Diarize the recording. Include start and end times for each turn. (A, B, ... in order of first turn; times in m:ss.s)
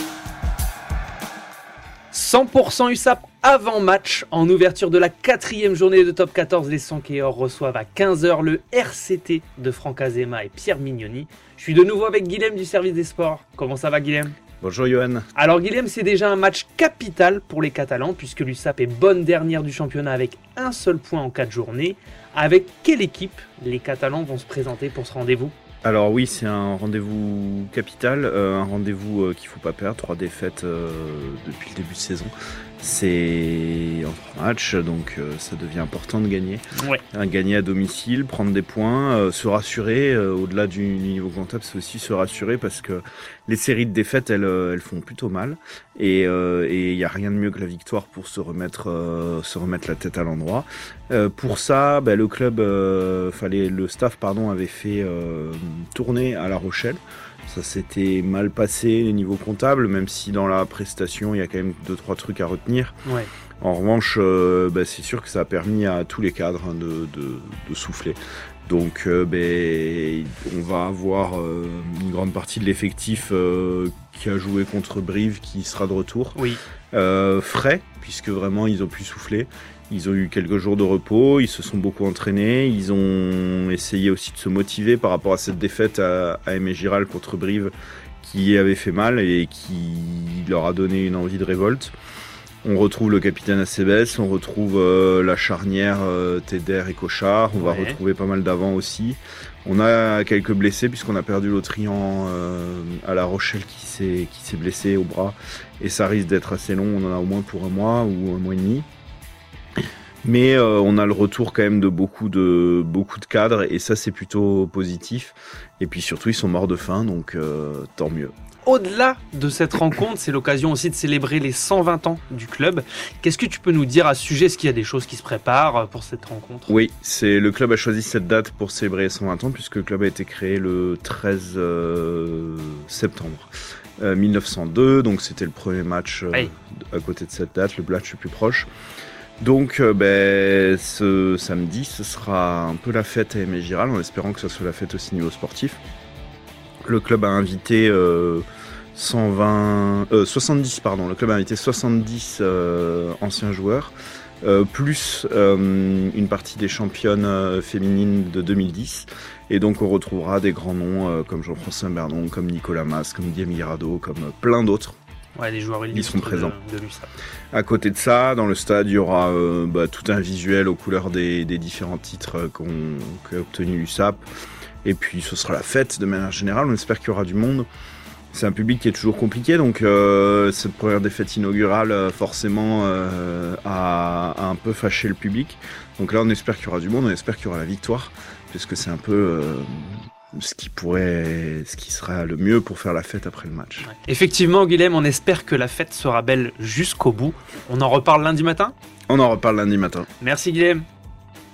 0:02.1-0:14.3 A
0:14.6-0:15.3 B
0:15.4-0:25.5 A
0:25.8-1:02.9 B
0:36.7-0:37.0 A
1:03.6-1:16.4 B
1:16.3-1:16.6 A
1:16.9-1:31.9 B
1:32.6-1:48.8 B
1:37.6-1:38.0 A
1:50.2-1:58.3 B
1:58.6-2:06.8 A
2:06.7-2:18.7 B
2:19.4-2:25.8 B
2:26.8-2:45.0 B
2:45.4-2:47.1 A
2:45.9-2:46.6 B
2:47.5-2:54.2 B
2:54.8-2:57.7 B
2:58.3-3:13.9 B
3:13.8-3:18.7 A
3:19.1-3:20.1 B
3:20.2-3:20.8 A